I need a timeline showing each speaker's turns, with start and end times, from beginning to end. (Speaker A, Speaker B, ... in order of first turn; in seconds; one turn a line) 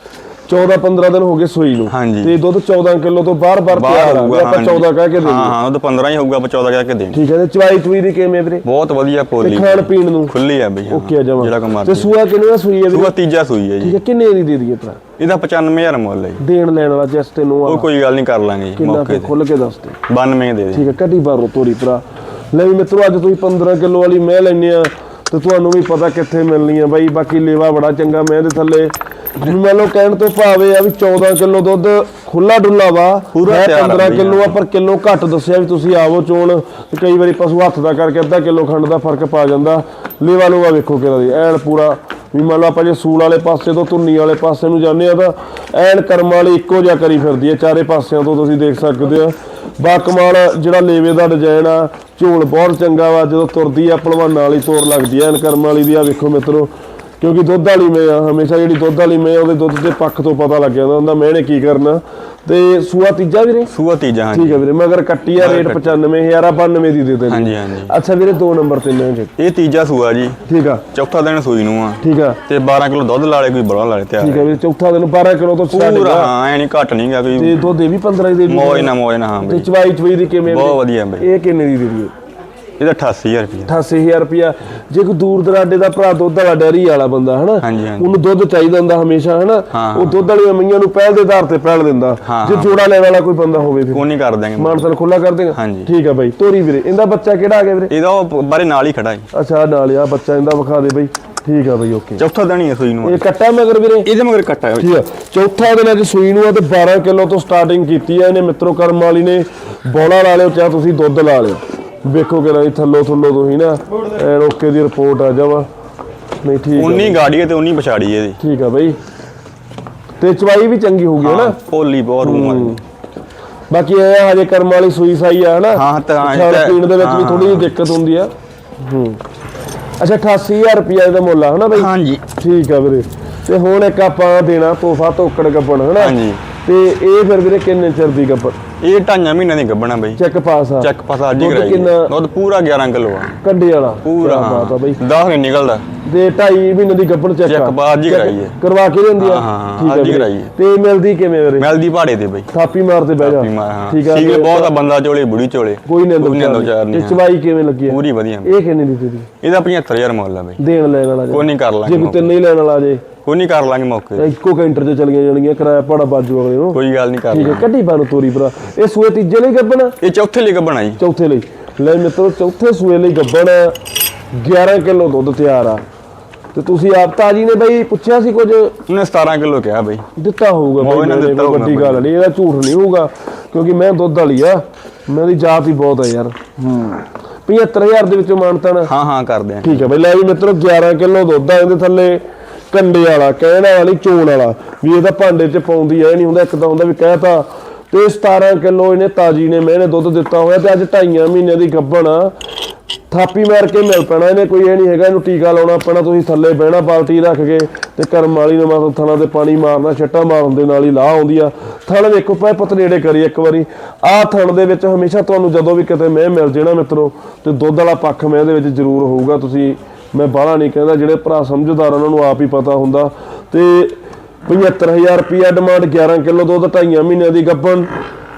Speaker A: 0.5-5.6
Speaker B: 1.9-2.4
Speaker B: 3.7-7.2
Speaker A: 7.1-8.7
Speaker B: 8.6-12.1
Speaker A: 9.4-10.3
Speaker A: 10.9-13.1
Speaker B: 12.9-14.0
Speaker A: 13.8-15.0
Speaker B: 15.2-16.4
Speaker A: 16.4-17.9
Speaker B: 17.6-19.3
Speaker A: 18.8-20.0
Speaker B: 20.1-20.9
Speaker A: 20.7-63.7
Speaker B: 33.3-34.6
Speaker B: 63.7-64.6
Speaker A: 64.3-69.3
Speaker B: 65.4-66.0
Speaker B: 67.3-67.9
Speaker B: 69.4-70.4
Speaker A: 70.5-70.8
Speaker B: 70.9-74.6
Speaker A: 72.0-72.4
Speaker A: 74.2-76.3
Speaker B: 75.7-77.6
Speaker A: 77.3-82.1
Speaker B: 78.5-79.7
Speaker B: 80.5-81.3
Speaker B: 82.8-83.7
Speaker A: 83.7-94.0
Speaker B: 87.6-88.2
Speaker B: 89.7-90.2
Speaker B: 92.2-92.8
Speaker B: 93.9-94.9
Speaker A: 94.6-97.9
Speaker B: 95.5-95.9
Speaker B: 97.9-99.3
Speaker A: 99.3-102.2
Speaker B: 102.2-103.2
Speaker A: 103.0-104.1
Speaker B: 104.0-105.0
Speaker A: 104.8-115.7
Speaker A: 116.4-117.2
Speaker B: 116.8-118.4
Speaker A: 118.4-119.0
Speaker A: 120.2-121.6
Speaker B: 121.2-122.8
Speaker A: 122.2-122.8
Speaker A: 123.7-129.2
Speaker B: 125.7-127.7
Speaker A: 130.0-138.6
Speaker B: 131.7-132.2
Speaker B: 136.0-136.4
Speaker B: 138.8-140.2
Speaker A: 140.2-142.1
Speaker B: 140.8-143.4
Speaker A: 143.4-145.0
Speaker B: 144.0-145.8
Speaker A: 146.1-151.7
Speaker B: 147.4-148.6
Speaker B: 149.2-150.5
Speaker B: 151.6-152.5
Speaker A: 152.5-154.7
Speaker B: 153.2-157.2
Speaker A: 155.8-159.3
Speaker B: 157.9-158.6
Speaker B: 159.4-160.6
Speaker A: 160.6-163.0
Speaker B: 161.3-162.3
Speaker B: 163.2-164.3
Speaker A: 164.2-166.8
Speaker B: 166.7-167.7
Speaker A: 167.3-170.0
Speaker B: 170.0-171.0
Speaker A: 171.0-173.8
Speaker A: 174.3-175.8
Speaker A: 176.5-178.8
Speaker B: 178.9-180.1
Speaker A: 180.2-188.9
Speaker B: 180.8-182.1
Speaker B: 188.9-189.9
Speaker A: 189.6-202.3
Speaker A: 203.1-227.9